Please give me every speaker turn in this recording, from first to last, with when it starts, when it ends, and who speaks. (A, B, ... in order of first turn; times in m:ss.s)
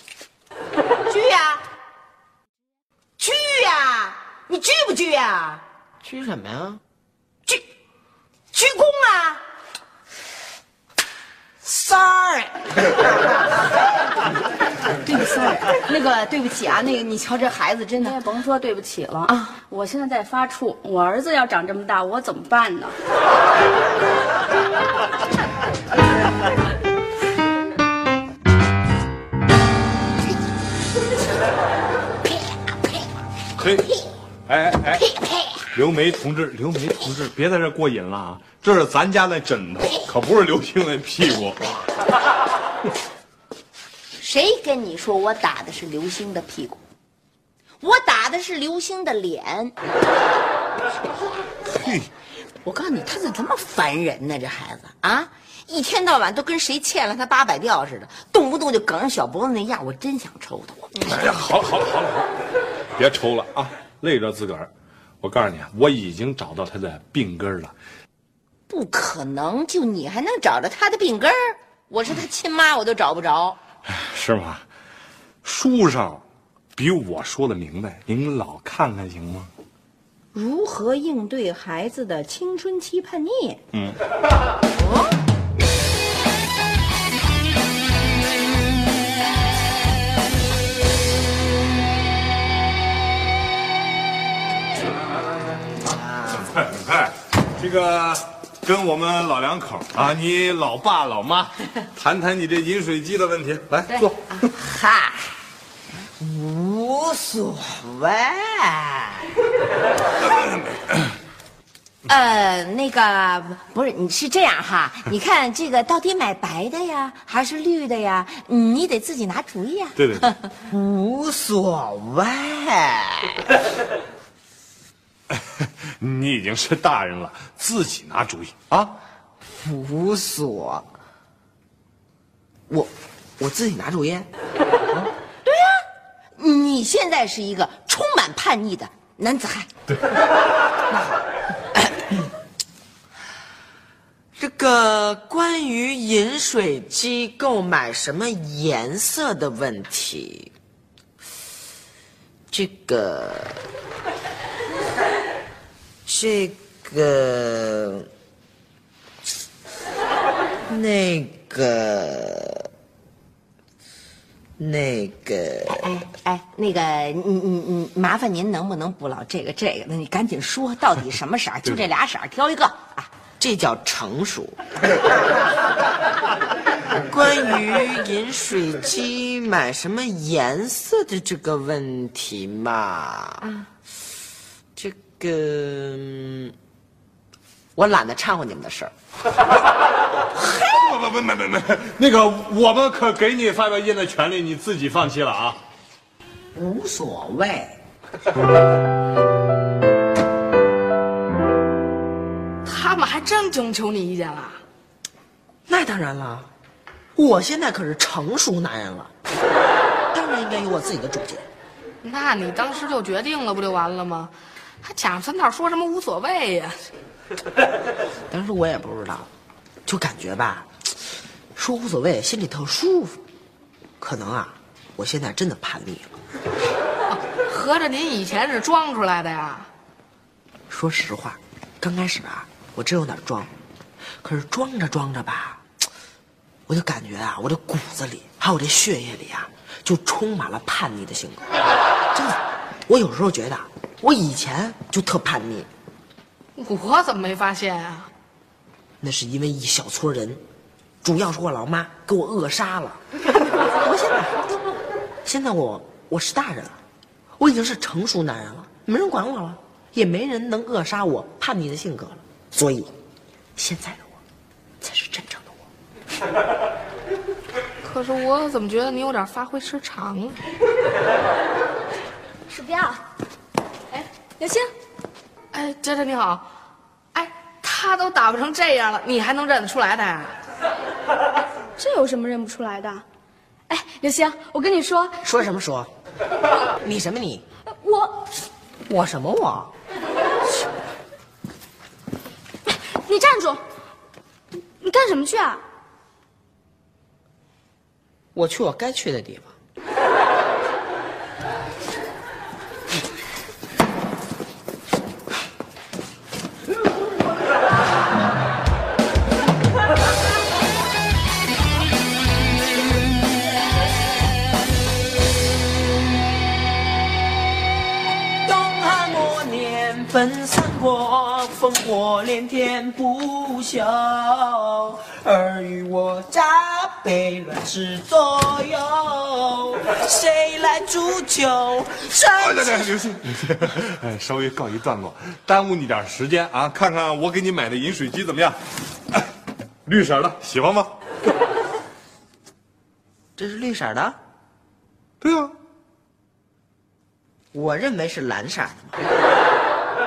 0:01.1-0:01.6 A
0:03.2-0:05.6 A
0:06.0-0:06.8 B
0:08.5-0:09.4 A
0:11.6-0:13.5 B
0:15.0-0:18.2 A
0:18.0-0:23.0 C
0:19.3-0:19.6 A
0:33.6-0:33.9 D
0:34.5-0:35.1 D
0:35.7-0:41.8 D
0:44.2-0:46.8 A
0:47.8-0:49.7 A
0:51.8-0:52.1 D
0:52.6-1:01.2 A
1:01.0-1:02.3 D
1:03.0-1:04.7 D
1:05.2-1:07.7 D
1:08.7-1:13.6 A
1:13.9-1:14.6 D
1:15.4-1:16.2 D
1:16.8-1:19.5 D
1:20.3-1:23.6 A
1:23.7-1:24.0 D
1:35.9-1:36.5 B
1:36.4-1:44.3 D
1:44.6-1:45.1 A
1:46.2-1:49.3 B
1:50.2-1:51.1 D
1:52.1-2:00.5 A
2:00.0-2:00.2 D
2:00.7-2:03.4 B
2:05.3-2:08.9 D
2:09.6-2:10.9 B
2:12.7-2:14.3 B
2:15.5-2:15.8 A
2:16.4-2:19.7 A
2:20.9-2:21.2 B
2:24.4-2:30.5 B
2:32.5-2:33.6 B
2:36.1-2:38.1 B
2:40.7-2:42.7 B
2:44.6-2:45.9 B
2:45.8-2:53.1 A
2:53.4-2:54.6 B
2:57.0-3:03.5 B
3:04.8-3:06.5 B
3:07.8-3:08.9 B
3:10.4-3:15.6 D
3:16.5-3:17.8 B
3:22.6-3:24.6 E
3:25.7-3:26.5 B
3:27.1-3:29.1 B
3:30.1-3:31.5 B
3:32.0-3:36.9 E
3:38.3-3:39.3 B
3:39.9-3:40.7 B
3:41.6-3:43.2 B
3:44.0-3:46.1 B
3:47.1-3:49.7 E
3:50.7-3:53.5 B
3:54.2-3:55.6 B
3:56.7-4:01.5 B
4:02.1-4:05.7 B
4:06.5-4:08.1 E
4:09.0-4:10.4 B
4:11.0-4:13.0 B
4:13.7-4:14.4 B
4:15.2-4:16.8 B
4:17.4-4:22.9 B
4:23.6-4:24.2 B
4:24.8-4:25.6 B
4:27.8-4:30.4 E
4:32.5-4:33.0 C
4:34.4-4:34.7 C
4:35.5-4:36.4 E
4:37.1-4:40.4 E
4:41.8-4:43.0 C
4:43.7-4:45.2 C
4:45.2-4:45.9 B
4:46.8-4:47.4 B
4:47.8-4:48.3 C
4:48.9-4:49.7 B
4:52.6-4:53.6 C
4:54.8-4:55.6 C
4:58.3-4:59.5 B
5:18.4-5:32.9 B
5:32.4-5:38.6 D
5:39.8-5:40.9 D
5:43.4-5:44.2 B
5:45.2-5:45.5 D
5:47.5-5:49.0 B